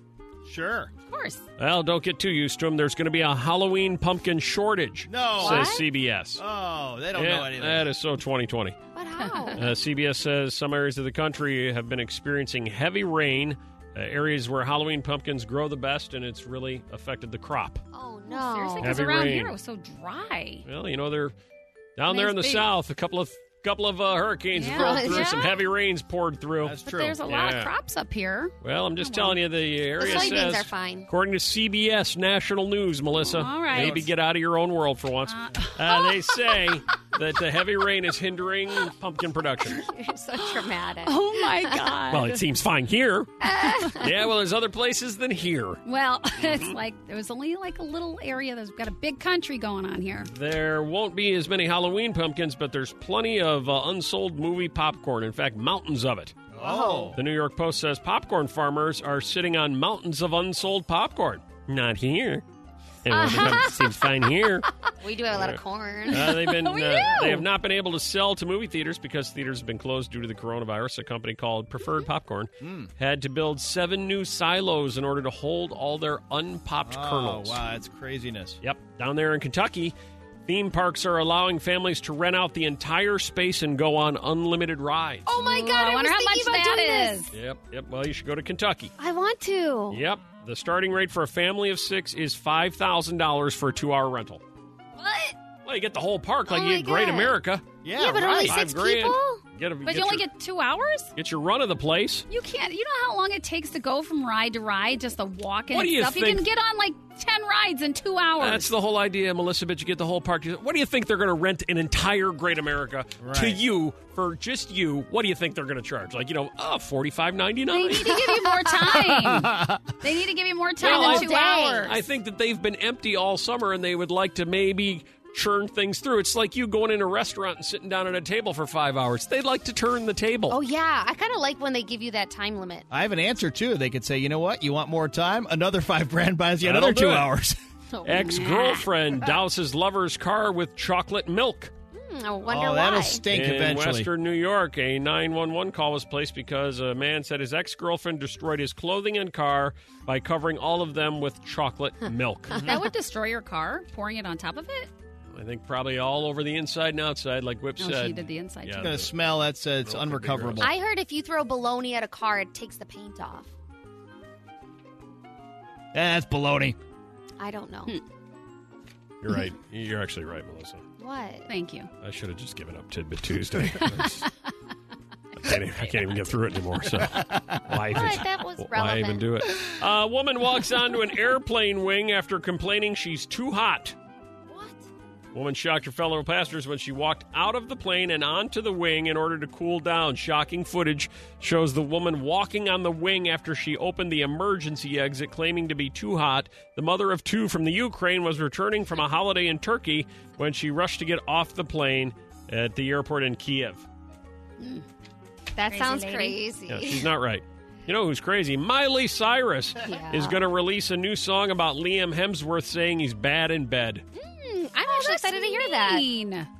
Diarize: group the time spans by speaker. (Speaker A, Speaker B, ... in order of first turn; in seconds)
Speaker A: 0.5-0.9, 5.1-5.8, 6.4-7.9, 26.6-27.2, 56.5-57.2, 72.6-72.9, 76.8-78.6, 97.8-98.6, 113.2-113.6, 118.9-119.8, 132.9-137.6, 142.4-144.1, 152.5-152.9, 158.8-160.7, 165.9-166.8, 177.1-177.6
Speaker B: 1.1-1.4, 9.2-9.6, 18.3-20.6, 22.1-22.7, 24.5-25.6, 26.9-29.4, 30.0-30.5, 33.3-34.1, 35.3-36.1, 40.4-42.4, 43.7-44.0, 45.9-50.3, 66.1-67.5, 85.4-87.3, 99.8-101.1, 102.3-108.7, 117.7-122.0, 138.1-138.8, 152.6-154.9, 157.8-159.0, 171.5-171.9, 173.9-174.3, 204.6-204.8, 205.7-206.4, 214.8-216.5
Speaker C: 1.6-6.4, 7.1-8.8, 9.6-17.8, 18.8-19.5, 20.6-21.4, 22.0-27.7, 28.6-39.8, 42.1-43.3, 43.9-45.8, 46.4-46.8, 50.3-56.4, 57.1-62.4, 63.0-64.7, 65.3-77.6, 78.6-80.0, 80.5-85.3, 87.3-88.9, 89.9-94.4, 95.7-97.6, 98.4-100.3, 101.2-102.3, 105.7-106.5, 108.4-118.2, 120.8-121.3, 121.8-130.6, 136.6-137.3, 138.1-141.7, 143.3-152.5, 155.3-159.1, 159.8-160.7, 169.2-170.8, 172.0-174.3, 175.4-184.0, 185.3-203.9, 206.7-214.1
Speaker D: 5.4-5.8, 8.9-9.6, 17.9-19.1, 24.7-25.5, 30.0-31.1, 39.8-41.9, 43.4-44.1, 56.6-57.2, 63.1-64.1, 65.0-66.5, 85.3-87.2, 89.0-90.0, 95.0-95.4, 96.5-97.3, 98.0-99.4, 118.2-118.7, 120.8-122.0, 130.5-132.9, 137.9-138.5, 141.9-143.2, 160.6-163.5, 167.4-168.0, 171.0-171.5, 177.9-179.2, 184.5-184.9, 205.6-207.1, 209.8-210.4, 214.2-216.1